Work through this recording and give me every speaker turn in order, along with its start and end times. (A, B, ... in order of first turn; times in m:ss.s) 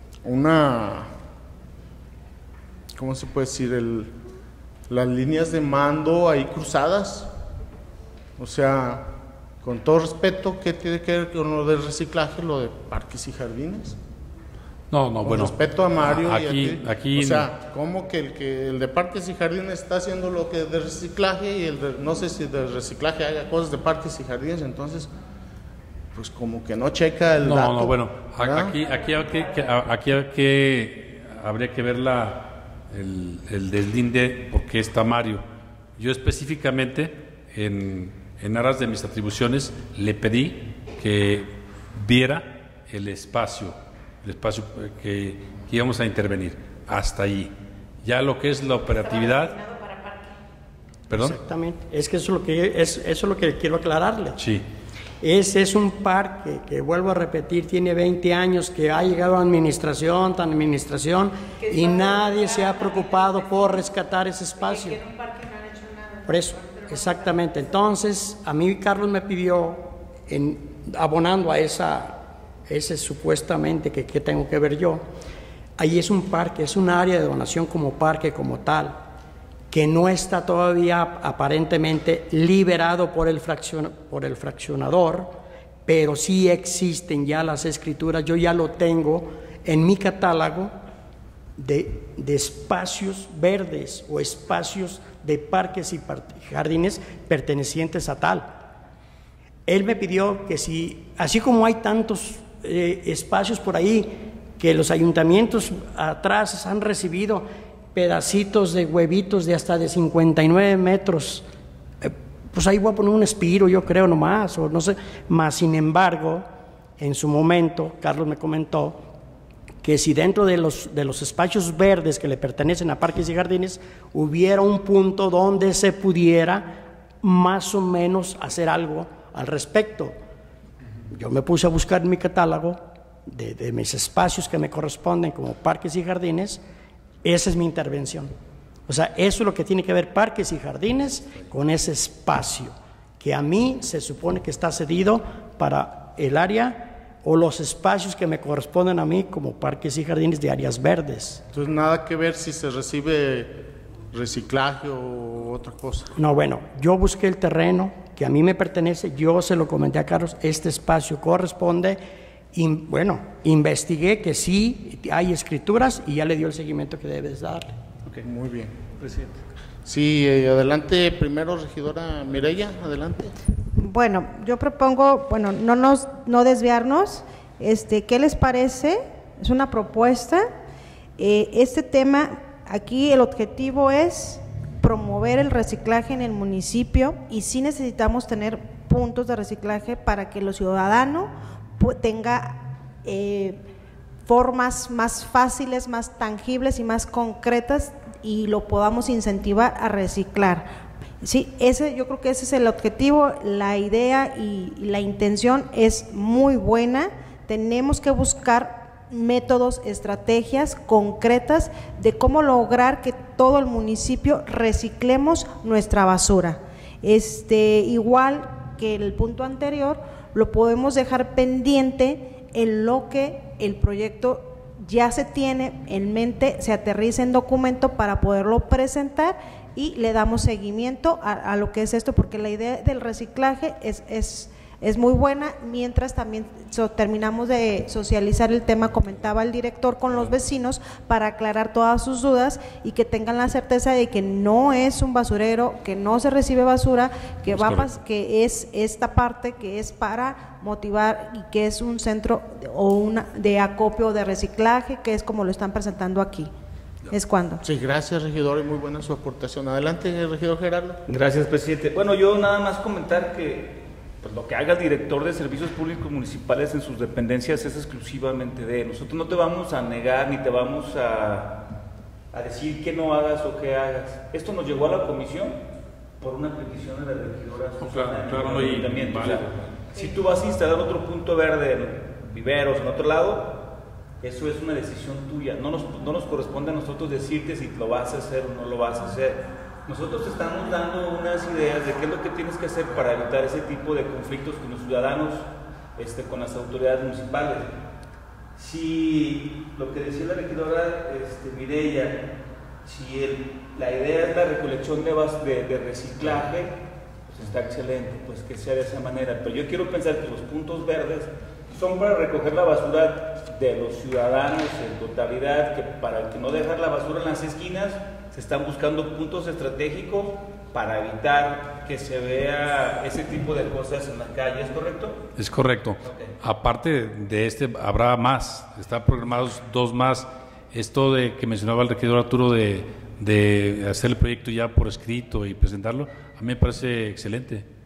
0:00.2-0:01.1 A
0:03.0-0:04.1 A
0:04.9-0:07.3 A
0:08.4-0:14.0 A
0:14.9-0:17.5 B
0:15.2-0:25.1 A
0:26.1-0:28.8 A
0:27.4-0:35.4 B
0:36.0-0:47.5 B
0:48.0-0:49.7 B
0:51.1-0:51.4 B
0:51.1-0:54.4 C
0:54.4-0:54.6 B
0:55.2-1:05.2 C
1:06.2-1:15.0 C
1:15.8-1:19.0 C
1:19.7-1:30.7 C
1:31.6-1:38.6 C
1:39.7-1:51.4 C
1:52.0-1:56.5 C
1:57.0-1:59.0 C
1:59.8-2:10.2 C
2:11.1-2:16.6 C
2:17.2-2:18.3 C
2:18.9-2:31.4 C
2:31.5-2:36.1 A
2:36.2-2:42.0 C
2:42.5-2:47.8 C
2:48.2-2:48.7 A
2:49.0-2:49.4 D
2:49.9-2:53.4 A
2:53.8-3:00.5 E
3:01.2-3:13.6 E
3:14.3-3:20.7 E
3:21.2-4:16.5 E
4:07.5-4:07.9 B
4:17.1-4:17.6 E
4:17.6-4:21.0 A
4:21.1-4:31.6 D
4:32.3-4:35.6 D
4:36.2-4:43.6 D
4:37.8-4:39.5 B
4:44.2-4:57.7 D
4:58.6-5:02.3 D
5:02.8-5:06.8 D
5:07.3-5:25.2 D
5:25.4-5:37.7 B
5:26.0-5:26.3 D